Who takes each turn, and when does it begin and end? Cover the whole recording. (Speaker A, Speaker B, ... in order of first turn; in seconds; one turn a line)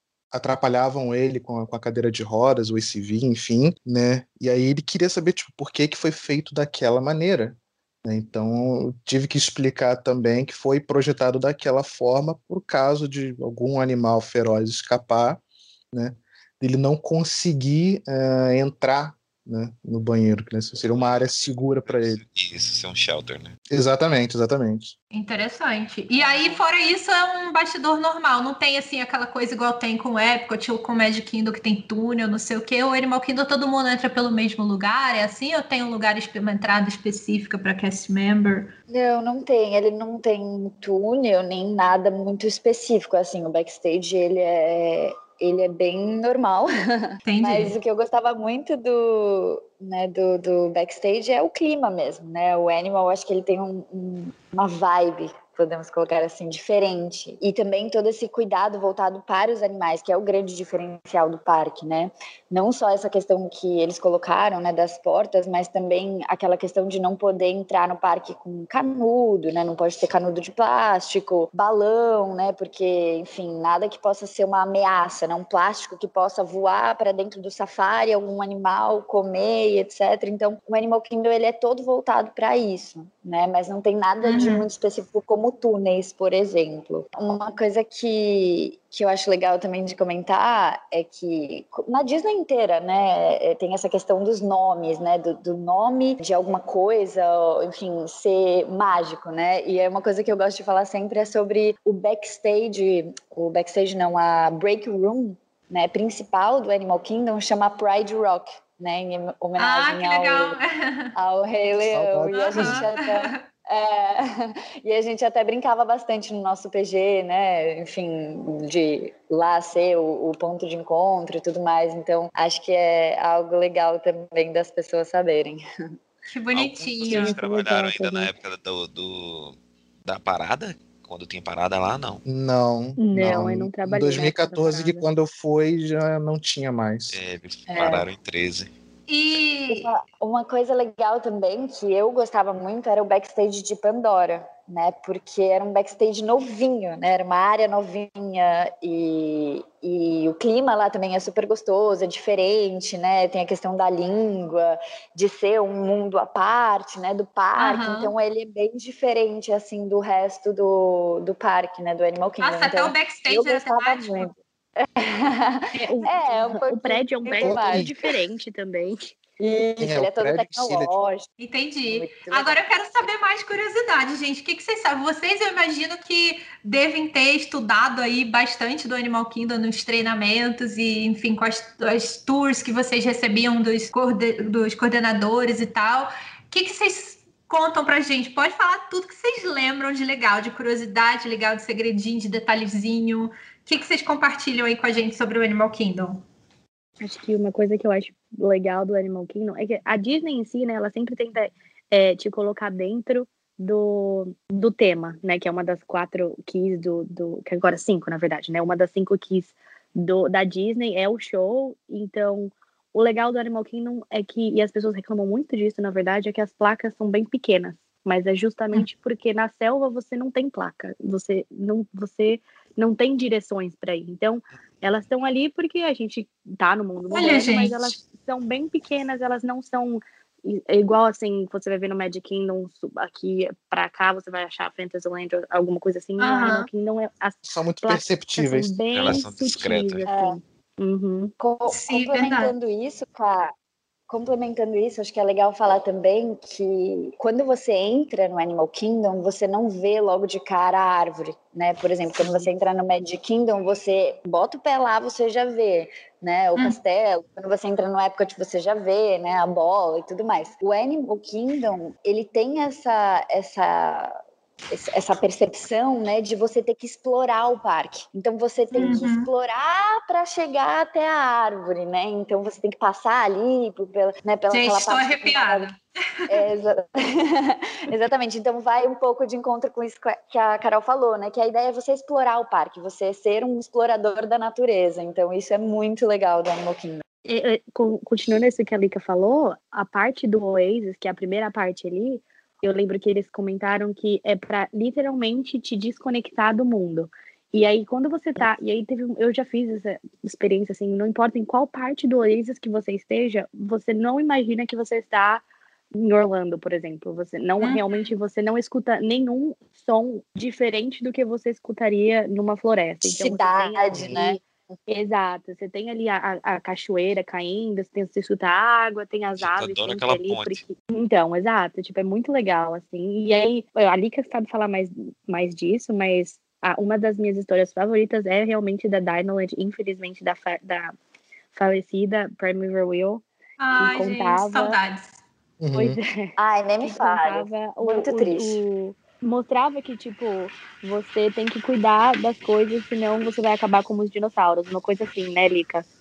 Speaker A: 0.3-15.4
Speaker A: 15.9-22.2
Speaker B: 20.9-23.5
Speaker A: 23.7-24.9
Speaker C: 25.1-38.7
Speaker D: 26.1-26.6
Speaker D: 38.9-110.6
Speaker C: 47.2-47.7
Speaker C: 84.2-84.7
Speaker C: 109.6-111.1
Speaker D: 111.2-125.6
Speaker A: 111.9-112.8
Speaker C: 112.3-113.4
Speaker C: 126.3-127.4
Speaker B: 126.5-132.2
Speaker D: 127.1-128.1
Speaker E: 127.1-128.2
Speaker A: 132.2-137.2
Speaker E: 133.0-135.0
Speaker B: 137.1-138.7
Speaker D: 137.7-138.1
Speaker C: 139.1-139.9
Speaker D: 139.7-167.9
Speaker C: 157.6-158.1
Speaker C: 162.4-164.3
Speaker E: 165.7-169.1
Speaker A: 167.4-167.9
Speaker D: 169.4-171.3
Speaker A: 169.8-170.9
Speaker C: 171.4-196.2
Speaker D: 171.9-172.6
Speaker E: 197.0-241.3
Speaker C: 227.1-227.9
Speaker C: 236.2-236.7
Speaker A: 237.4-238.7
Speaker B: 238.9-240.1
Speaker D: 240.1-240.4
Speaker D: 241.4-243.5
Speaker C: 241.7-242.5
Speaker D: 244.1-264.1
Speaker D: 264.7-275.7
Speaker E: 268.7-269.0
Speaker C: 268.7-269.3
Speaker C: 274.5-276.4
Speaker D: 276.3-287.0
Speaker E: 287.2-330.9
Speaker C: 307.6-308.1
Speaker D: 313.0-314.4
Speaker B: 319.4-320.6
Speaker E: 331.5-333.2
Speaker C: 333.6-335.2
Speaker E: 333.8-334.8
Speaker A: 335.6-336.0
Speaker E: 335.7-345.8
Speaker D: 336.4-338.6